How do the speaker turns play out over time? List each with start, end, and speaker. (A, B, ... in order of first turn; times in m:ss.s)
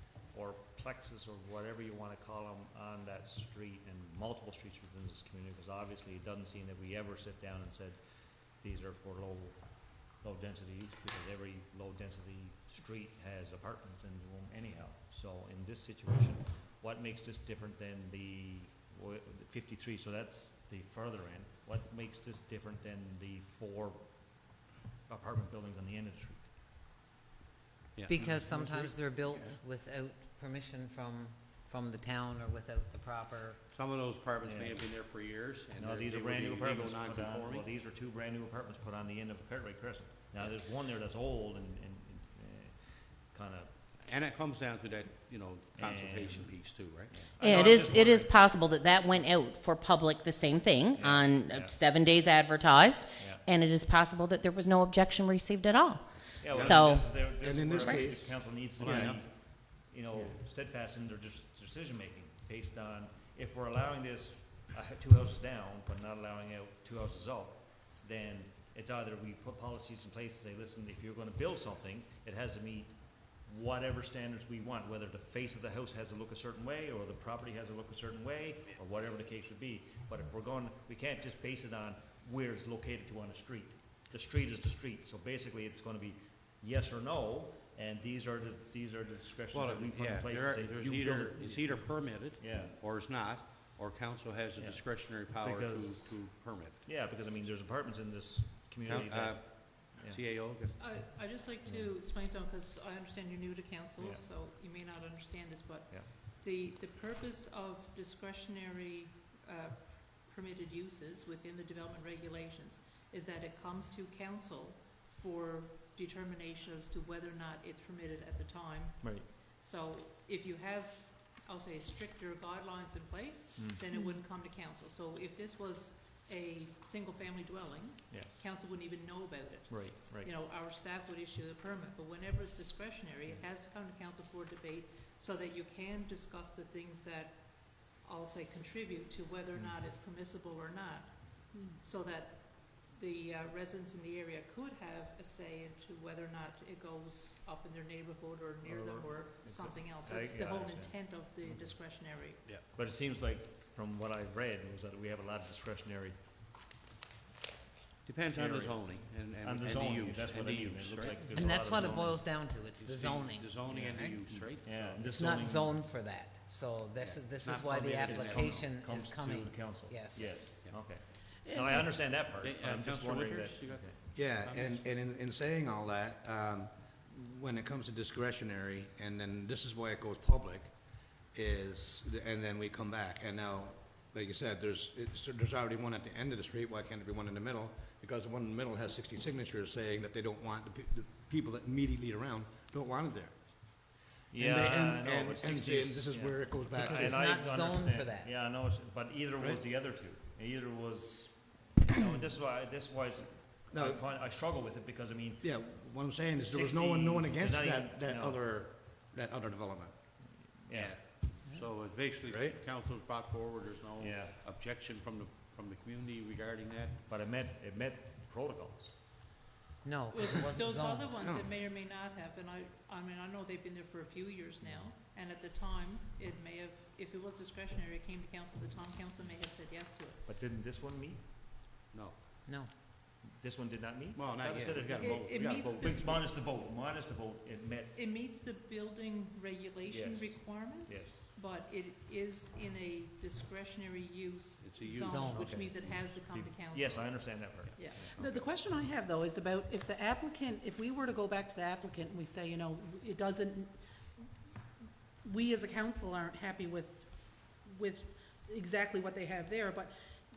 0:00.3-0:08.0 A
0:08.6-0:24.6 A
0:25.1-0:26.5 A
0:28.0-0:33.6 B
0:28.0-0:28.6 C
0:33.7-0:37.6 C
0:34.4-0:34.9 A
0:35.7-0:43.7 A
0:44.1-0:47.2 C
0:45.8-0:48.4 A
0:47.4-0:57.1 D
0:50.9-0:51.8 A
0:53.2-0:53.4 A
0:56.4-1:32.7 A
0:56.5-0:59.2 E
1:00.1-1:00.4 E
1:29.5-1:36.8 C
1:34.6-1:36.3 A
1:36.8-1:40.2 A
1:38.8-1:40.7 C
1:40.8-2:32.4 F
1:41.6-1:41.9 A
1:44.0-1:44.2 A
1:59.0-1:59.3 A
2:03.6-2:03.8 A
2:03.9-2:04.2 G
2:08.1-2:08.4 A
2:09.7-2:10.3 A
2:21.5-2:21.8 G
2:28.6-2:31.8 A
2:32.6-2:36.2 A
2:38.0-2:41.9 C
2:38.3-2:42.2 A
2:41.2-2:44.2 B
2:42.7-2:45.1 C
2:44.6-2:45.8 A
2:45.1-2:50.4 B
2:47.0-2:49.1 C
2:48.0-2:54.0 A
2:50.5-2:50.8 C
2:51.4-2:51.7 C
2:52.4-2:53.8 C
2:54.1-3:00.7 E
2:54.4-2:54.9 C
3:01.3-3:17.2 E
3:14.3-3:28.4 A
3:16.7-3:18.3 B
3:23.7-3:24.0 E
3:25.4-3:29.9 E
3:30.6-3:31.0 A
3:30.7-3:36.9 C
3:32.3-3:32.6 E
3:34.0-3:34.4 A
3:37.1-3:39.0 A
3:39.8-3:41.2 B
3:40.1-3:50.2 F
3:41.2-3:41.5 E
3:44.6-3:44.9 A
3:50.2-3:51.2 A
3:51.9-3:52.2 C
3:52.4-3:52.7 B
3:53.2-3:57.9 A
3:54.1-3:56.3 C
3:55.0-3:56.0 F
3:57.9-4:08.1 F
3:59.9-4:01.2 A
4:04.6-4:05.8 C
4:06.3-4:08.5 A
4:08.0-4:13.8 G
4:15.2-4:17.1 G
4:17.6-4:19.9 G